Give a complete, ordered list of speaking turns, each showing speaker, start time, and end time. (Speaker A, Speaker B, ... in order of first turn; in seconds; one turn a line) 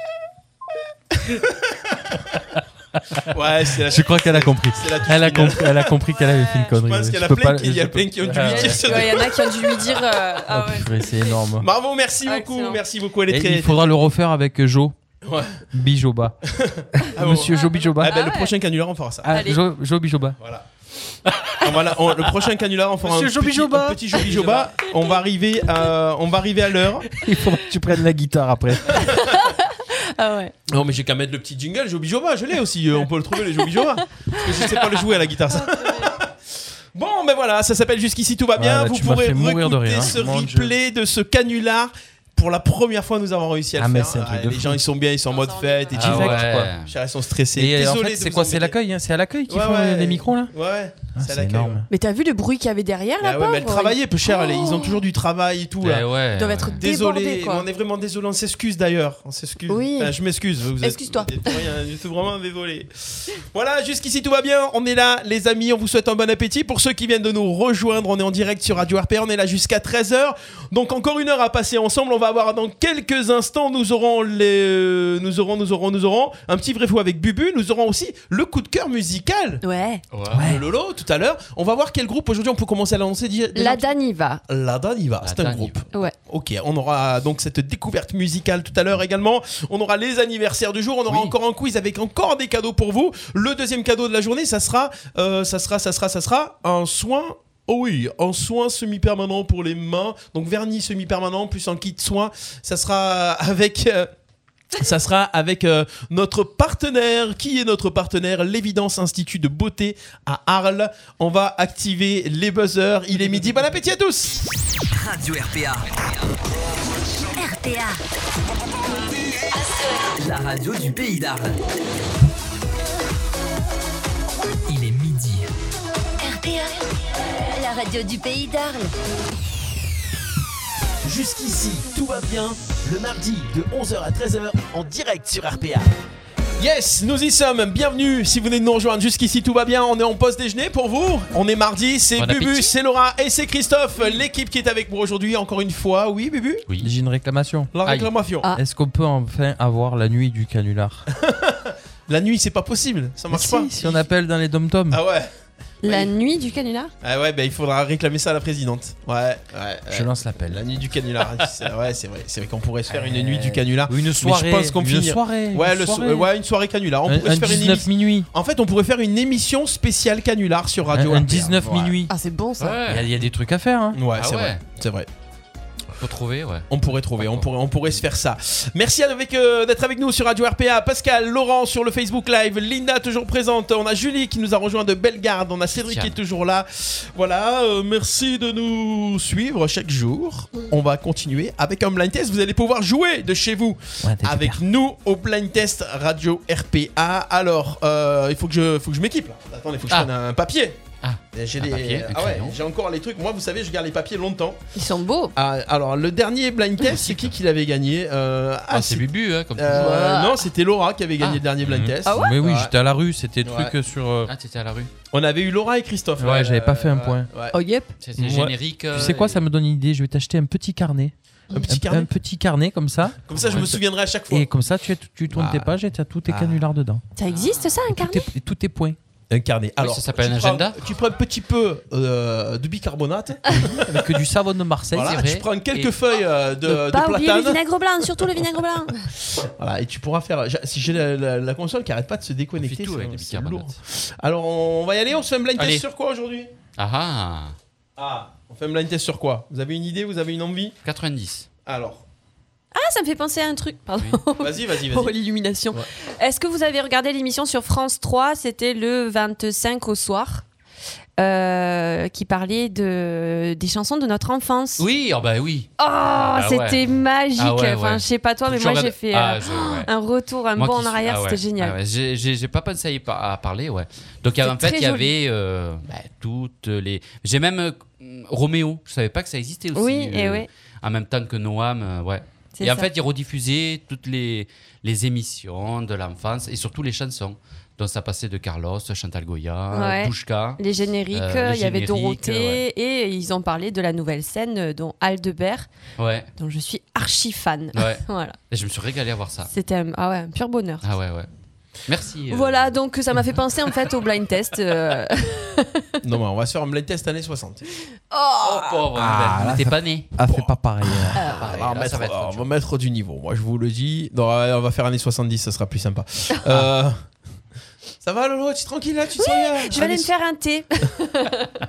Speaker A: 1.3-1.9
Speaker A: 3.3-5.9
Speaker B: 3.8-8.8
Speaker C: 6.2-6.7
Speaker A: 6.8-9.8
Speaker D: 8.2-8.8
Speaker C: 8.4-10.9
Speaker B: 10.5-11.7
Speaker A: 11.6-13.8
Speaker C: 12.3-12.8
Speaker B: 13.3-14.9
Speaker A: 15.2-15.5
Speaker B: 15.7-16.4
Speaker A: 16.6-19.4
Speaker B: 17.0-18.2
Speaker C: 18.0-18.5
Speaker B: 19.2-20.4
Speaker C: 19.3-19.6
Speaker A: 20.4-20.6
Speaker A: 21.6-27.1
Speaker B: 23.0-24.6
Speaker B: 27.2-29.0
Speaker A: 28.9-29.2
Speaker C: 29.0-30.5
Speaker A: 30.7-36.3
Speaker C: 35.5-36.1
Speaker A: 36.9-48.8
Speaker B: 38.5-40.7
Speaker B: 43.8-44.8
Speaker C: 45.3-45.9
Speaker B: 45.9-46.7
Speaker D: 45.9-46.9
Speaker B: 47.5-50.5
Speaker A: 49.5-51.9
Speaker B: 51.1-51.9
Speaker C: 51.9-55.0
Speaker A: 53.2-56.0
Speaker D: 55.8-56.8
Speaker C: 56.3-57.6
Speaker A: 56.7-62.9
Speaker C: 59.7-60.1
Speaker C: 60.8-61.5
Speaker A: 63.5-79.6
Speaker C: 79.6-80.0
Speaker D: 80.1-80.5
Speaker B: 80.3-80.6
Speaker A: 80.3-83.9
Speaker C: 83.5-84.4
Speaker A: 84.5-104.1
Speaker D: 85.2-85.8
Speaker D: 91.1-91.3
Speaker A: 104.7-114.4
Speaker E: 115.0-115.9
Speaker F: 117.3-118.0
Speaker E: 120.2-121.5
Speaker E: 124.7-125.4
Speaker F: 126.2-126.8
Speaker F: 127.5-128.9
Speaker E: 131.0-135.9
Speaker A: 136.6-146.6
Speaker D: 142.2-142.7
Speaker B: 146.8-147.7
Speaker A: 147.7-148.5
Speaker D: 147.9-148.1
Speaker B: 148.6-151.1
Speaker A: 151.2-154.1
Speaker B: 153.3-155.0
Speaker A: 154.9-155.3
Speaker C: 155.8-156.9
Speaker A: 155.8-156.1
Speaker A: 157.0-172.0
Speaker B: 159.9-160.6
Speaker B: 162.9-166.3
Speaker B: 167.1-168.3
Speaker B: 170.9-172.1
Speaker C: 172.1-172.8
Speaker D: 172.6-173.1
Speaker B: 172.9-174.0
Speaker A: 173.9-175.1
Speaker D: 174.1-174.6
Speaker D: 176.0-178.0
Speaker A: 176.7-200.8
Speaker D: 185.7-186.2
Speaker B: 194.0-194.6
Speaker D: 201.0-202.6
Speaker A: 201.3-204.6
Speaker C: 204.7-205.3
Speaker A: 205.4-212.7
Speaker D: 207.0-207.3
Speaker D: 208.7-210.2
Speaker C: 209.7-210.4
Speaker B: 211.6-214.3
Speaker C: 212.1-212.3
Speaker A: 213.4-213.7
Speaker D: 214.3-214.9
Speaker A: 215.1-217.6
Speaker B: 216.2-217.3
Speaker C: 217.5-217.9
Speaker D: 218.0-219.4
Speaker B: 218.2-221.1
Speaker A: 221.5-222.1
Speaker B: 221.7-223.6
Speaker A: 223.3-224.5
Speaker D: 223.3-223.8
Speaker B: 224.3-227.0
Speaker A: 225.3-225.7
Speaker A: 226.3-226.6
Speaker C: 227.2-228.3
Speaker D: 227.3-227.7
Speaker B: 227.9-229.0
Speaker A: 229.3-234.0
Speaker D: 229.8-230.8
Speaker B: 233.7-235.2
Speaker A: 234.9-237.6
Speaker D: 235.0-235.9
Speaker C: 236.7-239.1
Speaker A: 239.3-246.5
Speaker D: 242.6-243.8
Speaker D: 245.6-245.8
Speaker D: 246.8-247.6
Speaker A: 248.0-250.8
Speaker D: 250.8-251.5
Speaker A: 251.7-252.0
Speaker C: 252.7-260.4
Speaker A: 254.4-255.2
Speaker C: 261.2-264.9
Speaker D: 264.8-269.9
Speaker C: 265.8-271.8
Speaker D: 270.6-292.6
Speaker C: 274.4-275.1
Speaker C: 279.7-280.5
Speaker C: 282.6-282.9
Speaker C: 289.7-295.7
Speaker D: 296.0-296.3
Speaker C: 296.4-298.3
Speaker D: 297.7-299.5
Speaker C: 299.5-300.8
Speaker D: 300.8-301.3
Speaker D: 301.8-302.7
Speaker C: 302.3-305.9
Speaker A: 306.0-307.6
Speaker C: 308.1-308.8
Speaker D: 308.4-310.1
Speaker B: 308.9-311.2
Speaker A: 310.3-317.1
Speaker C: 311.1-311.5
Speaker D: 311.3-312.5
Speaker A: 318.0-320.1
Speaker C: 319.2-321.5